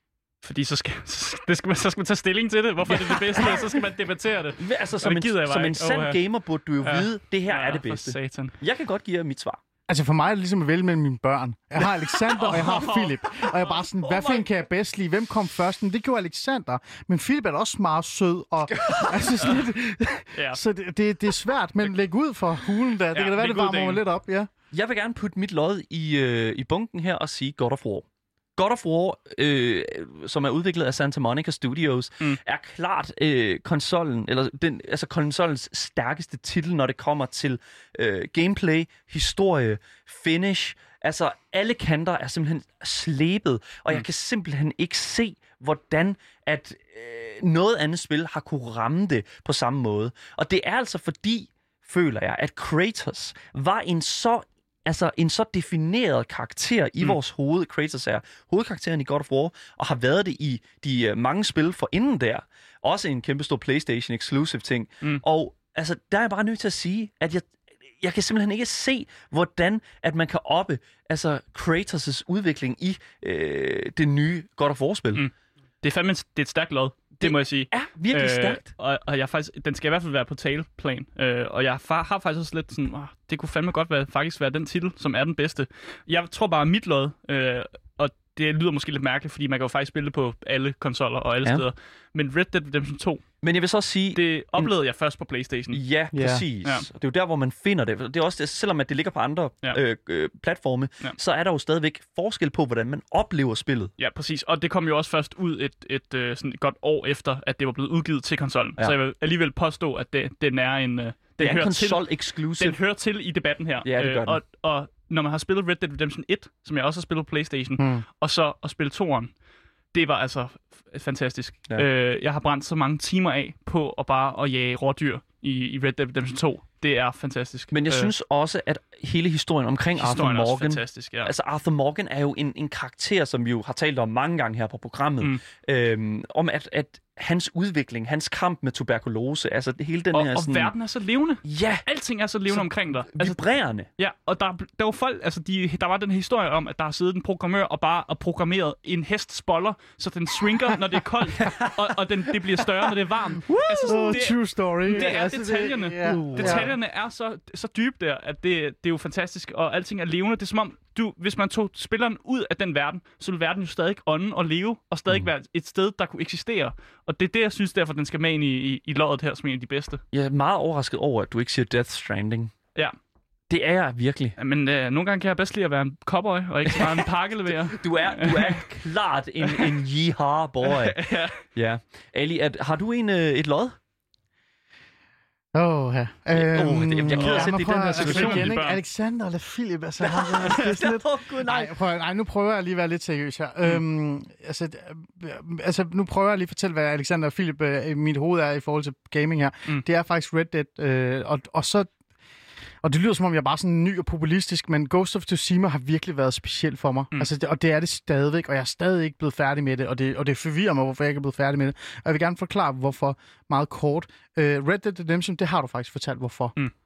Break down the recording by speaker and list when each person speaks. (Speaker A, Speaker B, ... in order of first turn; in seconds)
Speaker A: 0.4-6.2, 6.8-8.6, 12.3-13.4, 23.1-24.0, 75.1-93.2, 94.2-95.8, 104.0-119.3, 119.9-128.1, 130.0-131.3, 140.1-143.4, 144.0-170.0, 174.4-178.7, 179.4-179.8, 180.6-181.4, 187.1-188.8
Speaker B: 2.9-3.8, 4.6-9.6, 14.0-14.5, 18.6-19.6, 24.7-75.2, 77.2-78.7, 93.4-94.7, 95.7-103.9, 111.4-112.8, 113.8-114.4, 127.7-140.7, 141.4-141.8, 142.5-143.9, 151.4-152.9, 153.5-154.2, 154.9-155.2, 156.1-156.7, 170.1-172.5, 173.5-174.4, 176.7-183.8, 186.3-188.5, 190.0-191.8
Speaker C: 9.9-24.5, 96.1-96.5, 117.8-118.1, 153.5-156.7, 185.5-201.9, 202.8-216.6